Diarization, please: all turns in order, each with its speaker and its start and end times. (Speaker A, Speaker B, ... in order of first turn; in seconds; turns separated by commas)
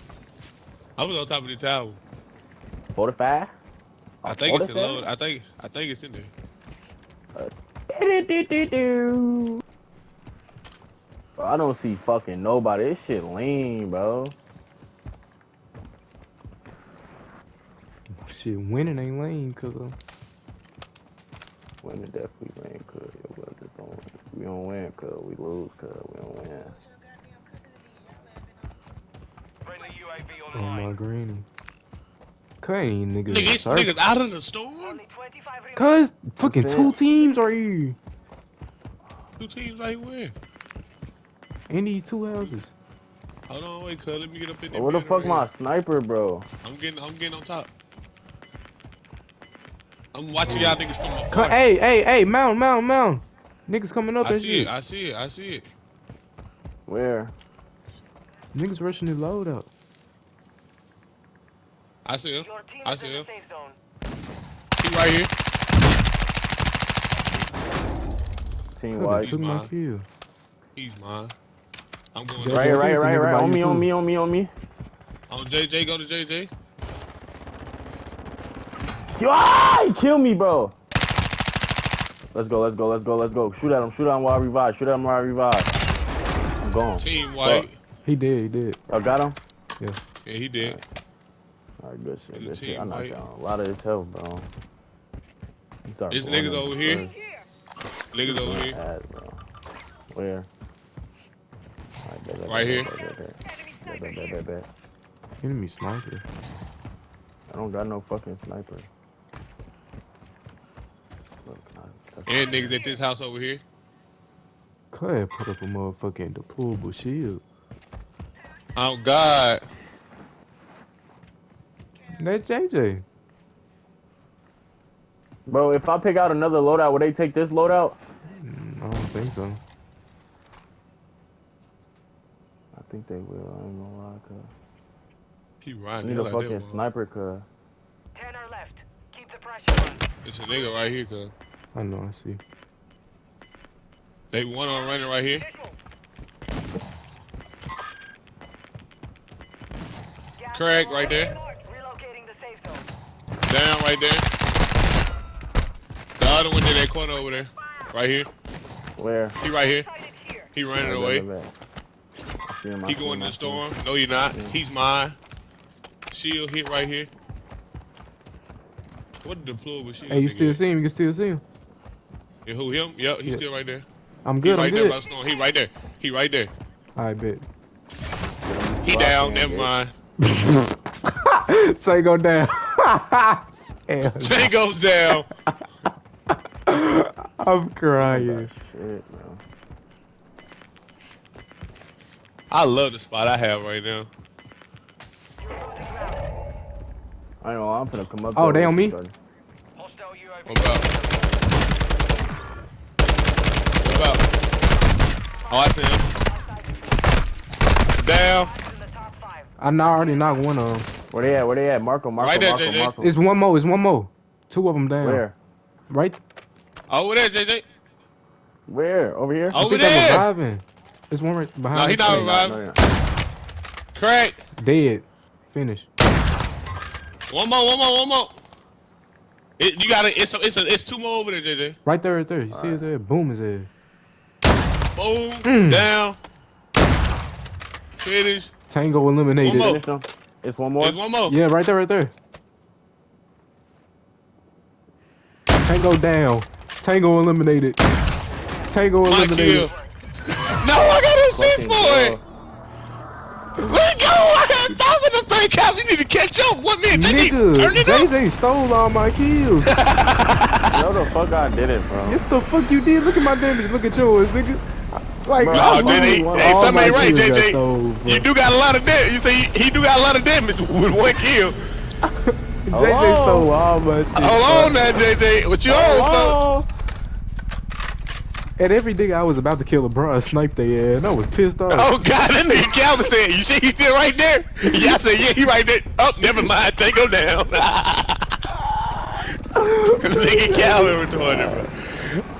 Speaker A: 1.0-2.0, Speaker B: 2.9-3.5, Speaker B: 4.2-5.1, Speaker A: 4.2-6.3, Speaker B: 7.3-9.6, Speaker B: 11.4-14.3, Speaker C: 18.1-20.0, Speaker B: 21.8-26.8, Speaker D: 29.7-30.9, Speaker C: 30.5-31.4, Speaker C: 32.6-33.9, Speaker A: 33.3-35.0, Speaker D: 35.0-35.9, Speaker C: 35.7-38.0, Speaker B: 36.4-37.0, Speaker A: 39.4-40.3, Speaker C: 41.7-42.7, Speaker A: 43.5-45.5, Speaker B: 44.7-46.5, Speaker A: 46.6-47.7, Speaker A: 50.1-51.6, Speaker C: 50.4-54.7, Speaker A: 54.2-55.7, Speaker B: 56.9-57.3, Speaker C: 58.5-59.7, Speaker A: 62.0-63.2, Speaker D: 62.4-63.8, Speaker A: 64.8-65.3, Speaker B: 68.7-69.3, Speaker C: 68.9-70.1, Speaker A: 69.2-69.7, Speaker A: 70.8-71.3, Speaker A: 72.1-72.8, Speaker C: 72.4-73.9, Speaker B: 72.5-74.5, Speaker A: 75.3-76.5, Speaker B: 79.1-80.8, Speaker B: 82.3-85.7, Speaker B: 86.6-87.7, Speaker A: 87.0-87.8, Speaker C: 88.0-88.8, Speaker B: 88.9-89.4, Speaker A: 90.2-90.8, Speaker B: 91.8-94.5, Speaker A: 92.3-93.2, Speaker B: 95.8-97.2, Speaker A: 96.1-97.0, Speaker A: 98.1-98.8, Speaker B: 98.2-99.4, Speaker B: 100.1-100.5, Speaker B: 102.0-104.7, Speaker A: 102.5-102.9, Speaker C: 105.4-106.2, Speaker B: 107.5-108.9, Speaker B: 111.4-112.8, Speaker A: 112.2-113.6, Speaker C: 114.9-117.4, Speaker A: 118.8-119.7, Speaker C: 122.2-123.0, Speaker B: 125.5-128.0, Speaker C: 128.3-129.6, Speaker B: 132.7-134.5, Speaker A: 135.6-136.8, Speaker B: 136.0-137.4, Speaker D: 138.2-140.0, Speaker A: 140.2-141.3, Speaker C: 141.7-142.4, Speaker A: 144.3-145.5, Speaker D: 145.5-145.8, Speaker D: 150.4-152.8, Speaker A: 150.5-151.4, Speaker A: 153.4-154.2, Speaker A: 156.2-158.3, Speaker B: 159.0-159.4, Speaker A: 159.4-159.9, Speaker D: 159.9-160.5, Speaker A: 160.5-161.2, Speaker B: 160.8-161.5, Speaker B: 162.5-163.7, Speaker A: 162.8-165.2, Speaker B: 164.3-164.6, Speaker A: 166.1-167.1, Speaker A: 169.2-170.6, Speaker C: 170.1-171.4, Speaker A: 172.4-173.8, Speaker C: 174.2-175.0, Speaker A: 174.4-176.5, Speaker C: 176.9-177.4, Speaker B: 178.4-179.7, Speaker A: 178.8-179.9, Speaker C: 180.2-184.5, Speaker A: 184.2-185.2, Speaker C: 186.7-188.5, Speaker B: 188.0-189.4, Speaker A: 192.5-194.1, Speaker D: 195.4-196.2, Speaker B: 197.4-199.1, Speaker C: 198.3-199.0, Speaker D: 199.8-201.3, Speaker A: 200.5-200.8, Speaker A: 203.8-204.2, Speaker A: 205.5-206.1, Speaker A: 208.0-208.5, Speaker D: 208.5-209.5, Speaker C: 209.6-210.9, Speaker B: 211.1-213.1, Speaker A: 212.2-212.9, Speaker C: 213.0-215.2, Speaker B: 215.0-215.4, Speaker C: 215.9-216.2, Speaker A: 216.9-217.6, Speaker B: 218.7-219.6, Speaker A: 219.5-220.2, Speaker C: 219.5-222.3, Speaker A: 221.7-222.6, Speaker B: 222.0-222.8, Speaker A: 223.9-224.4, Speaker C: 224.6-225.9, Speaker A: 227.3-228.4, Speaker A: 229.6-231.8, Speaker C: 231.8-233.7, Speaker B: 232.5-232.9, Speaker A: 234.9-236.2, Speaker C: 235.4-235.9, Speaker A: 238.0-238.5, Speaker C: 238.7-239.8, Speaker A: 239.4-239.8, Speaker B: 239.5-241.0, Speaker A: 240.8-241.4, Speaker C: 241.3-242.1, Speaker C: 245.6-247.8, Speaker C: 248.7-249.7, Speaker A: 249.0-249.7, Speaker A: 250.5-252.2, Speaker B: 251.3-252.2, Speaker A: 253.6-258.1, Speaker C: 256.9-259.7, Speaker A: 259.7-260.8, Speaker B: 260.7-262.2, Speaker C: 262.1-268.3, Speaker B: 265.4-267.1, Speaker A: 265.5-271.6, Speaker C: 272.2-274.3, Speaker B: 272.7-274.7, Speaker A: 274.1-276.4, Speaker B: 275.7-276.7, Speaker C: 278.6-281.9, Speaker A: 281.7-288.3, Speaker A: 289.9-292.1